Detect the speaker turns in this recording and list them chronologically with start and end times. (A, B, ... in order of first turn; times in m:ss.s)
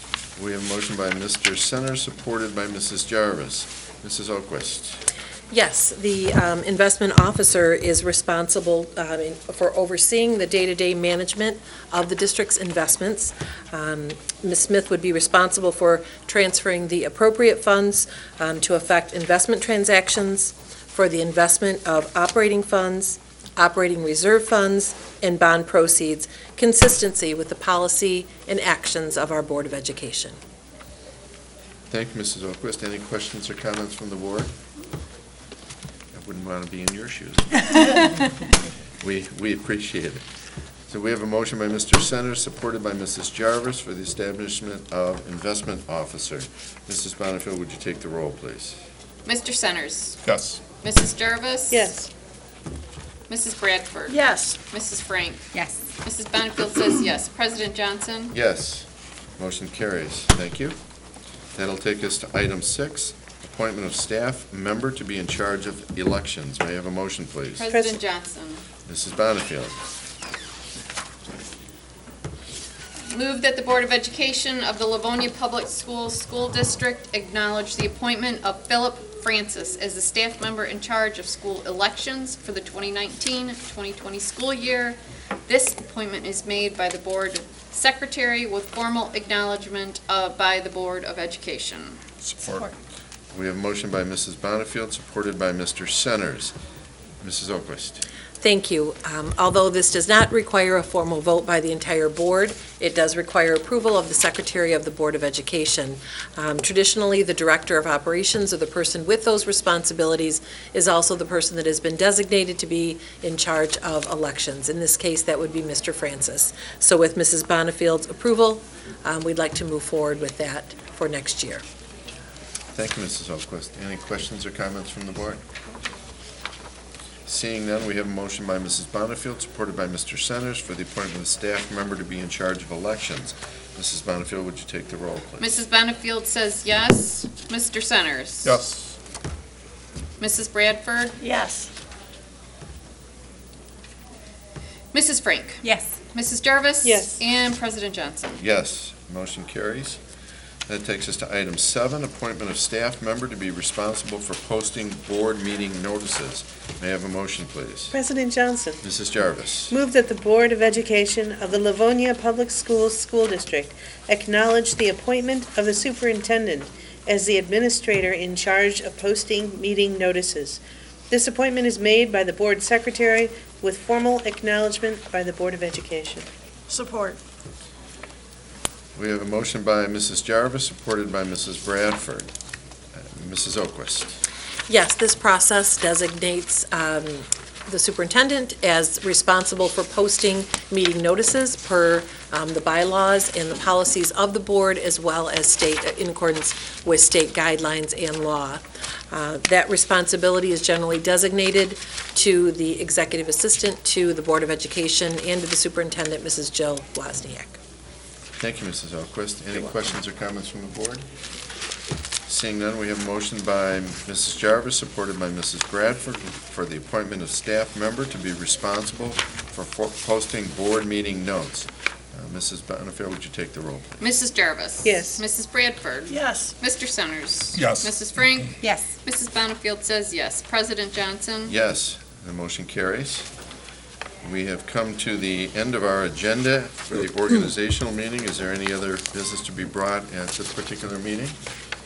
0:00.4-0:05.0 A
0:05.5-0:30.4 B
0:31.9-0:34.5 A
0:36.1-0:37.9 A
0:39.0-0:40.2 A
0:40.9-0:48.8 A
0:49.2-0:50.2 C
0:50.2-0:50.6 D
0:50.8-0:51.9 C
0:51.7-0:52.1 E
0:53.3-0:58.3 C
0:54.1-0:54.6 F
0:58.3-0:58.9 A
0:59.4-1:00.8 A
1:01.6-1:07.6 A
1:07.6-1:08.6 C
1:07.7-1:08.0 E
1:08.9-1:09.8 A
1:13.1-1:32.0 C
1:32.2-1:32.7 D
1:33.3-1:36.6 A
1:37.2-1:38.0 A
1:38.4-2:01.6 B
2:02.7-2:05.4 A
2:07.3-2:15.5 A
2:15.4-2:18.5 C
2:18.4-2:19.0 D
2:20.2-2:21.2 C
2:21.2-2:21.7 F
2:24.9-2:28.4 C
2:25.6-2:25.9 F
2:26.8-2:27.2 E
2:28.4-2:30.0 A
2:30.7-2:37.9 A
2:37.9-2:38.8 E
2:38.8-2:39.8 A
2:39.7-2:56.3 E
2:56.7-2:57.2 F
2:59.0-3:02.3 A
3:02.9-3:04.2 A
3:04.7-3:27.6 B
3:28.4-3:31.0 A
3:32.3-3:44.0 A
3:44.0-3:51.5 C
3:44.8-3:45.2 E
3:46.1-3:46.5 F
3:47.6-3:48.5 D
3:48.6-3:48.9 F
3:51.5-3:53.3 A
3:54.2-4:01.4 A